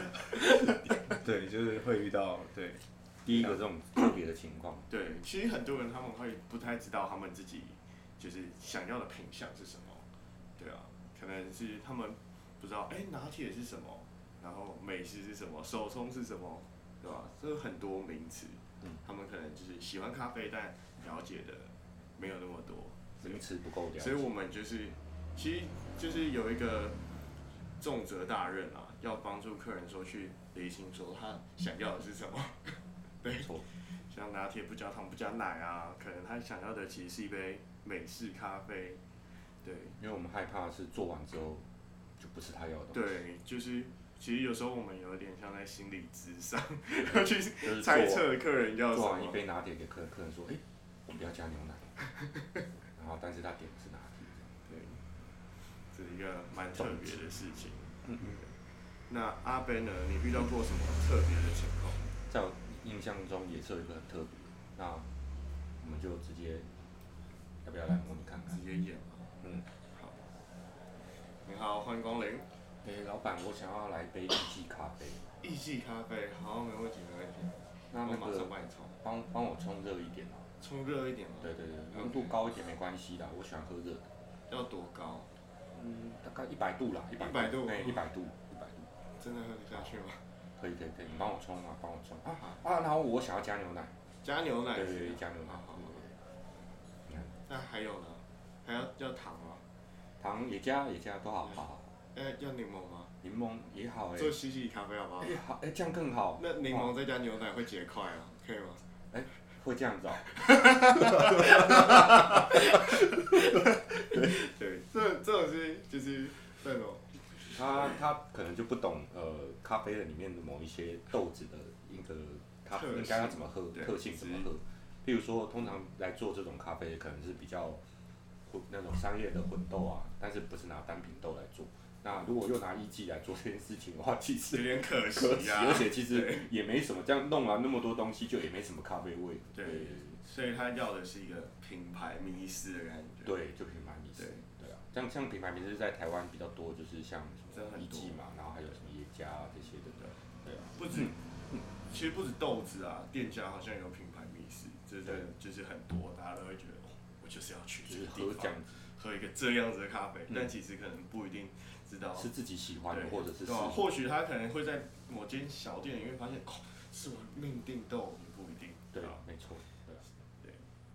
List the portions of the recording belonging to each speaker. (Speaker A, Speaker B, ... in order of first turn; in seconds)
Speaker A: 1.1-3.6
Speaker B: 3.2-4.9, 23.2-24.3, 33.3-33.7, 40.0-41.6, 42.2-43.1, 47.0-48.3, 48.9-52.0, 52.9-54.5, 56.7-57.3, 62.2-65.1, 65.8-66.7, 67.6-68.6, 72.8-75.3, 77.9-80.5, 81.4-84.1, 85.7-88.9, 90.6-93.9, 94.7-96.2, 97.1-97.4, 100.2-101.9, 103.2-104.4, 105.2-106.9, 109.1-112.9, 117.4-127.8, 128.5-140.2, 143.2-151.1, 157.8-158.8, 162.1-163.8, 168.9-170.1
Speaker C: 4.9-10.1, 10.6-27.0, 27.8-39.0, 39.6-40.0, 42.9-49.4, 54.7-55.0, 55.9-58.5, 59.1-62.1, 68.5-70.3, 71.3-72.5, 75.4-79.0, 80.6-82.4, 84.5-85.3, 87.1-88.0, 89.1-90.2, 94.2-96.1, 97.5-99.6, 101.4-103.2, 104.2-105.4, 106.4-108.8, 110.4-117.9, 122.7-124.5, 134.5-136.5, 139.5-143.4, 144.2-144.4, 147.5-148.2, 150.5-162.3, 162.9-169.2, 170.4-170.7